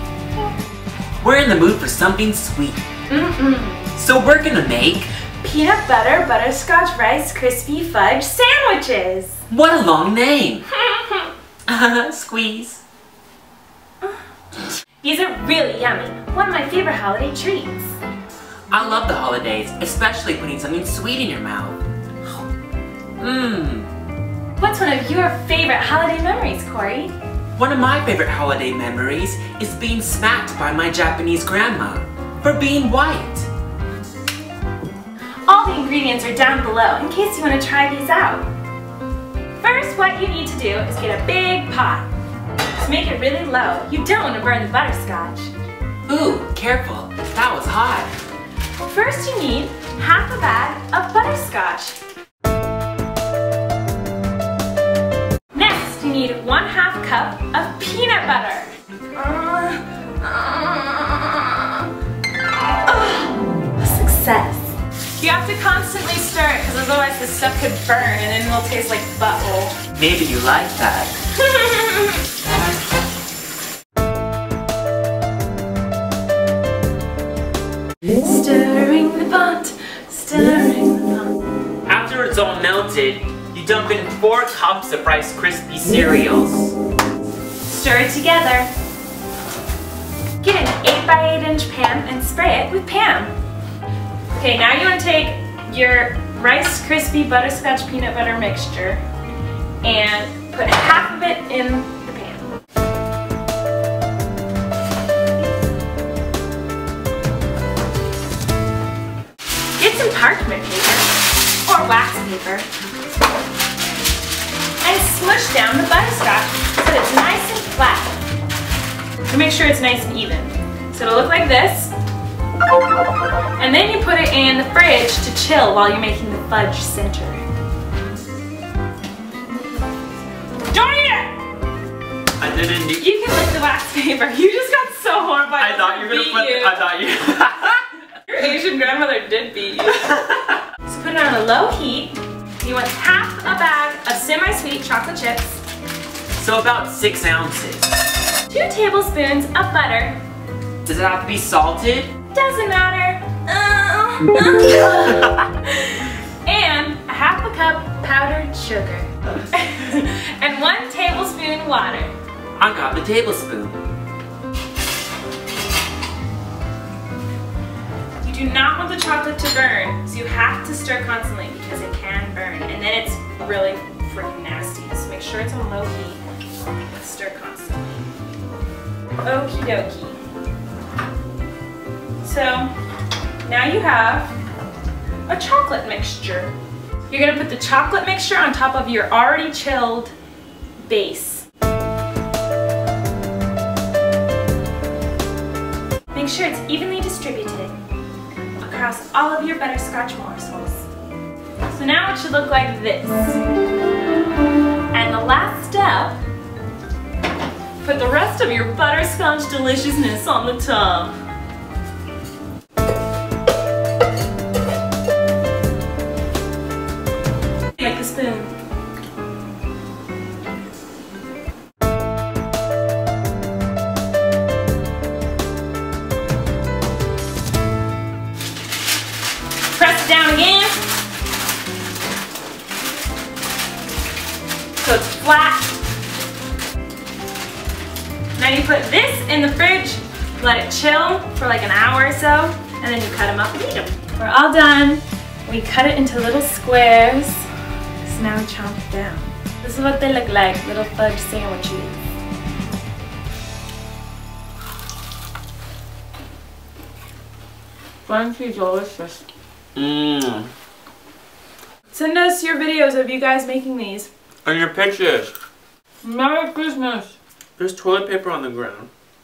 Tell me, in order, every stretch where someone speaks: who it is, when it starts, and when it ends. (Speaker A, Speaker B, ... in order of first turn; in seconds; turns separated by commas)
Speaker A: 1.2-2.8, Speaker B: 3.1-3.9, Speaker A: 4.0-5.1, Speaker B: 5.4-9.4, Speaker A: 9.5-10.7, Speaker B: 10.8-11.3, Speaker A: 11.7-12.8, Speaker B: 15.0-17.9, Speaker A: 18.7-21.8, Speaker A: 23.2-23.9, Speaker B: 24.6-27.1, Speaker A: 27.6-33.5, Speaker B: 35.5-38.5, Speaker B: 39.6-42.1, Speaker B: 42.8-45.5, Speaker A: 46.1-48.1, Speaker B: 48.9-52.0, Speaker B: 55.5-61.9, Speaker B: 62.9-69.8, Speaker A: 70.0-71.2, Speaker B: 71.4-72.2, Speaker B: 78.2-81.3, Speaker A: 81.9-86.8, Speaker B: 87.7-88.7, Speaker B: 90.4-93.3, Speaker B: 94.3-99.0, Speaker B: 99.8-102.5, Speaker B: 109.8-112.7, Speaker B: 114.8-118.2, Speaker B: 119.3-121.9, Speaker B: 123.6-127.4, Speaker B: 130.7-131.4, Speaker A: 132.4-133.1, Speaker B: 133.0-136.8, Speaker A: 135.6-137.8, Speaker B: 138.2-140.1, Speaker A: 139.9-140.6, Speaker B: 140.8-145.6, Speaker A: 146.3-147.9, Speaker B: 148.5-150.2, Speaker A: 150.8-152.1, Speaker B: 152.3-162.1, Speaker A: 162.6-163.8, Speaker B: 168.2-176.2, Speaker B: 176.9-177.8, Speaker B: 179.2-180.2, Speaker B: 182.2-182.7, Speaker B: 183.4-184.3, Speaker B: 185.3-186.5, Speaker B: 187.1-190.1, Speaker B: 190.8-191.4, Speaker B: 196.1-197.8, Speaker B: 198.6-200.9, Speaker B: 201.7-203.4, Speaker B: 204.9-206.2, Speaker B: 207.8-211.1, Speaker B: 217.8-218.5, Speaker B: 229.7-230.8, Speaker B: 234.8-235.7, Speaker B: 238.4-247.5, Speaker B: 248.0-252.0, Speaker C: 258.0-259.2, Speaker A: 259.8-260.5, Speaker B: 261.9-264.1, Speaker A: 264.5-265.3, Speaker C: 266.0-267.1, Speaker A: 267.6-268.9